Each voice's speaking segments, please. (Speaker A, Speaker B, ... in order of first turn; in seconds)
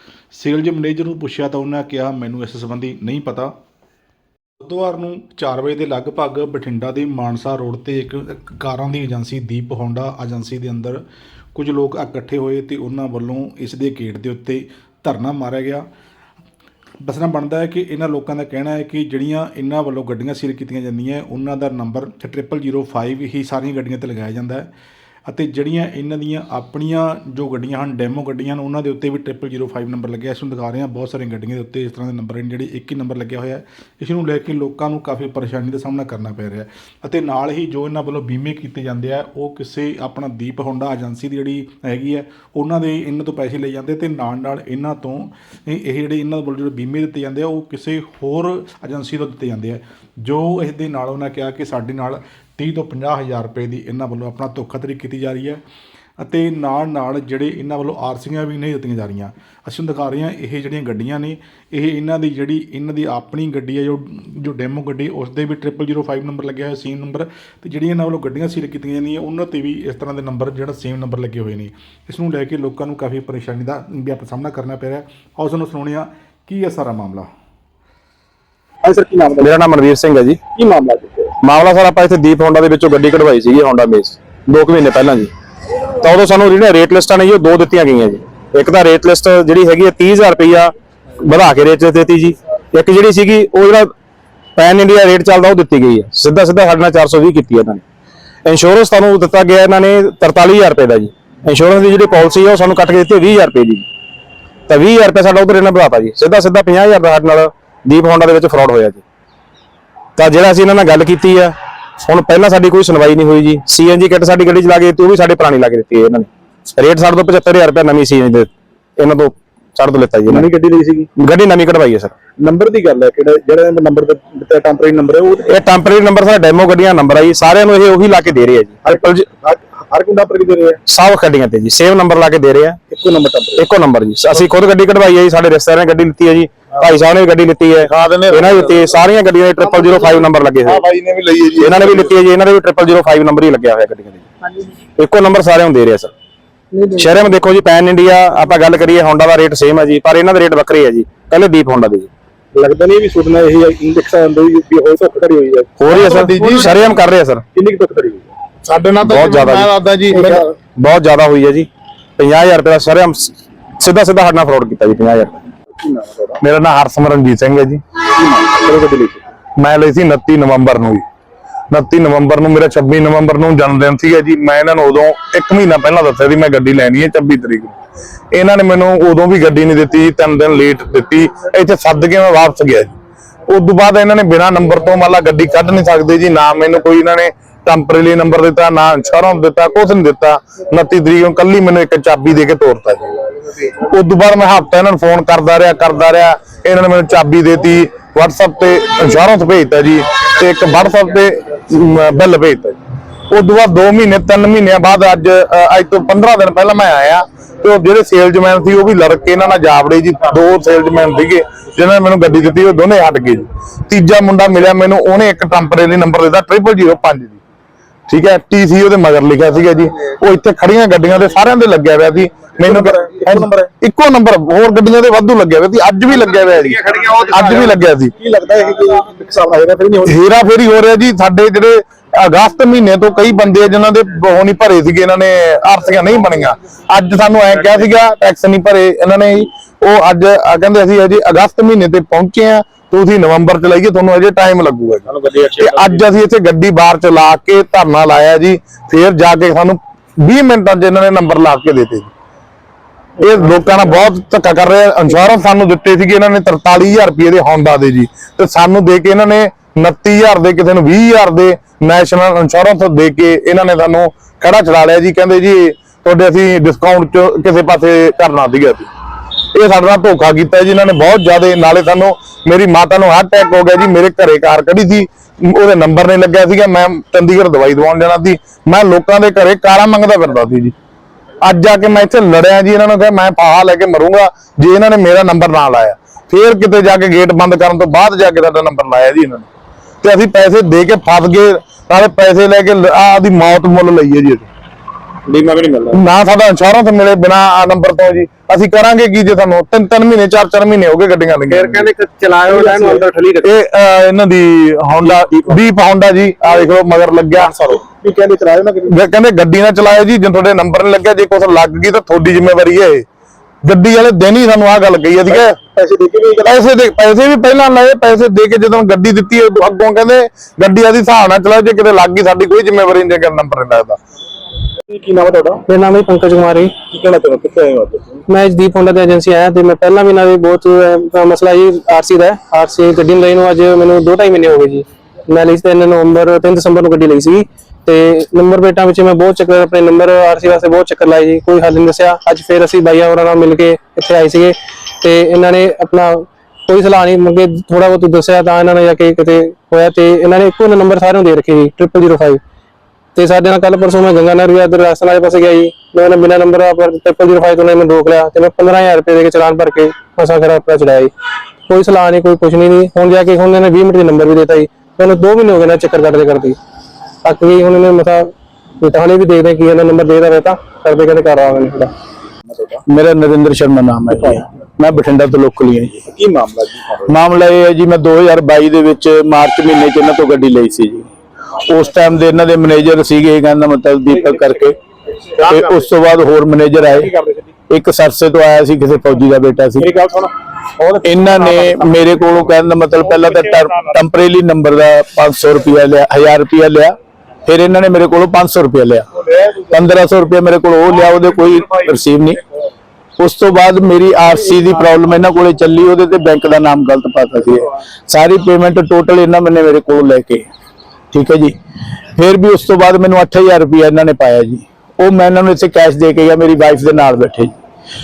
Speaker A: 0.3-3.5, 4.6-11.0, 11.6-15.9, 17.0-24.7, 25.3-55.6, 56.2-77.3
Speaker B: 78.8-79.5, 80.5-81.3, 120.3-121.1, 122.4-125.6, 128.8-130.8, 132.9-133.7, 152.5-155.7, 157.6-158.3, 160.2-160.5, 165.8-166.4, 168.1-169.3, 222.6-223.7, 226.9-230.2, 302.5-303.0, 307.4-308.9, 315.3-316.5, 324.9-325.6, 326.9-328.2, 372.5-372.8, 374.1-374.4, 376.0-377.1, 385.4-385.8, 386.8-387.5, 389.8-391.8
Speaker C: 79.4-80.4, 81.4-85.3, 86.0-93.9, 94.6-97.8, 98.5-103.9, 104.7-109.0, 110.2-120.5, 121.2-122.2, 125.5-129.0, 130.9-132.8, 133.6-140.8, 141.6-144.3, 145.0-146.1, 146.8-152.1, 155.8-157.4, 159.0-165.4, 295.3-296.0, 301.5-303.5, 305.0-305.6
Speaker D: 137.9-138.5, 140.9-141.8, 155.9-156.9, 158.7-160.4, 166.4-167.8, 169.6-171.0, 171.7-177.8, 178.3-182.9, 183.5-193.2, 193.7-202.8, 203.3-217.4, 218.1-228.1, 230.1-252.1, 253.2-268.9, 269.5-280.7, 281.4-289.5, 290.0-294.5, 295.9-301.9, 303.4-307.5, 308.9-313.1, 313.6-315.6, 316.4-324.0
Speaker E: 325.7-326.8, 328.3-352.4, 353.1-361.1, 361.7-366.6, 367.2-371.9
Speaker F: 372.9-375.9, 377.1-381.1, 381.6-384.8, 385.4-387.1, 387.7-389.9, 391.0-396.9, 397.5-399.1, 399.6-402.4, 403.2-410.4, 411.1-411.5, 412.1-417.5